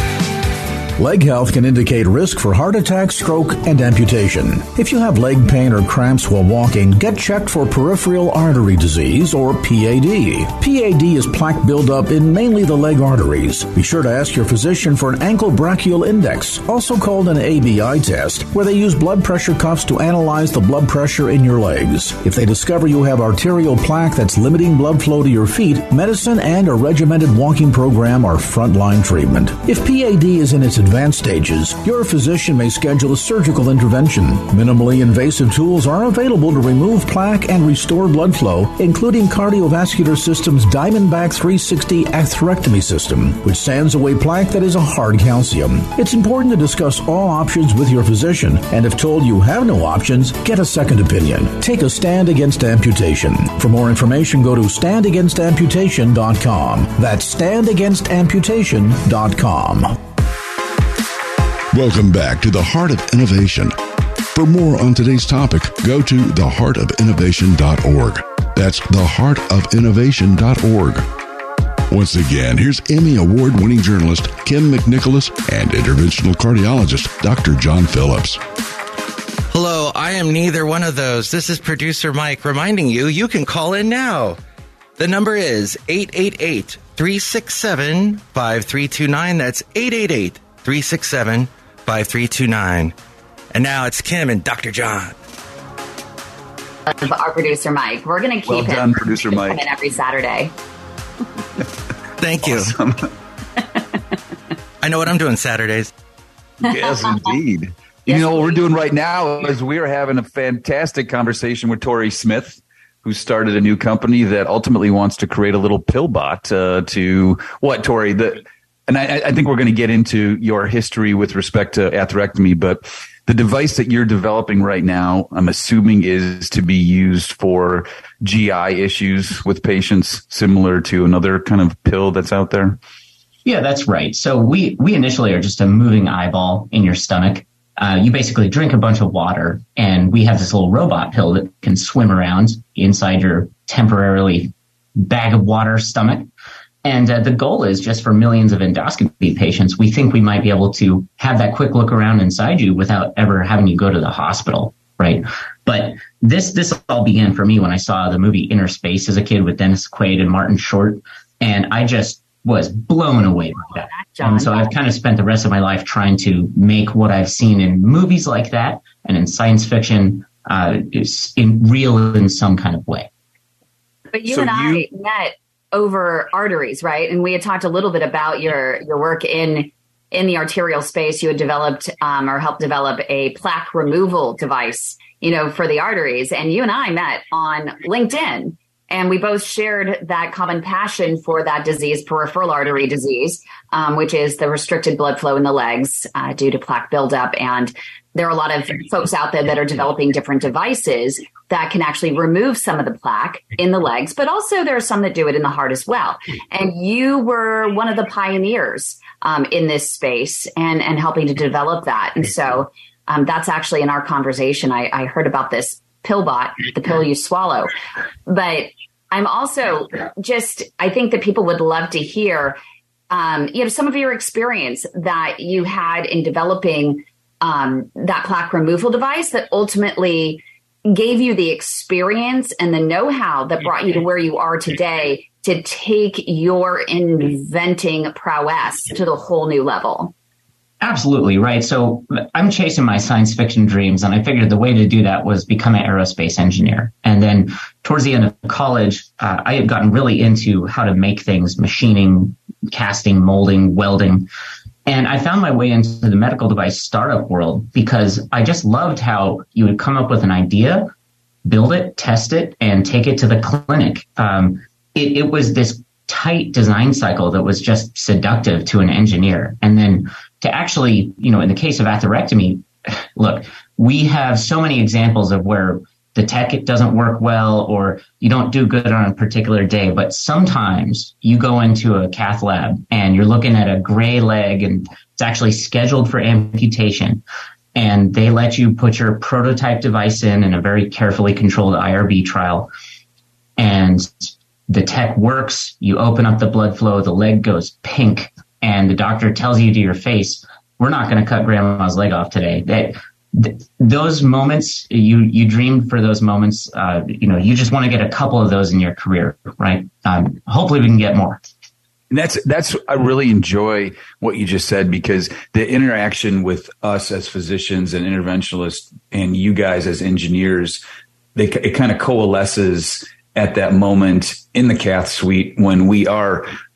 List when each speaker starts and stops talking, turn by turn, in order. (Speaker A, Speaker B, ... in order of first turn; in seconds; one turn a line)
Speaker A: 1.0-60.0
Speaker B: 61.7-63.8
Speaker B: 64.3-71.0
Speaker B: 71.9-78.4
Speaker C: 79.5-84.4
Speaker C: 85.0-92.9
Speaker C: 93.5-95.1
Speaker D: 96.9-100.5
Speaker E: 98.5-99.6
Speaker C: 102.2-102.8
Speaker E: 102.4-103.1
Speaker C: 104.8-105.9
Speaker E: 106.6-132.8
Speaker D: 108.1-108.7
Speaker F: 133.4-146.3
Speaker F: 146.8-173.1
Speaker D: 163.8-164.7
Speaker D: 174.1-217.7
Speaker E: 174.3-174.8
Speaker D: 218.2-222.6
Speaker D: 223.1-240.1
Speaker F: 240.8-254.3
Speaker F: 254.8-260.9
Speaker F: 261.4-287.2
Speaker F: 287.8-292.7
Speaker F: 293.6-311.4
Speaker E: 312.1-320.8
Speaker E: 321.3-326.5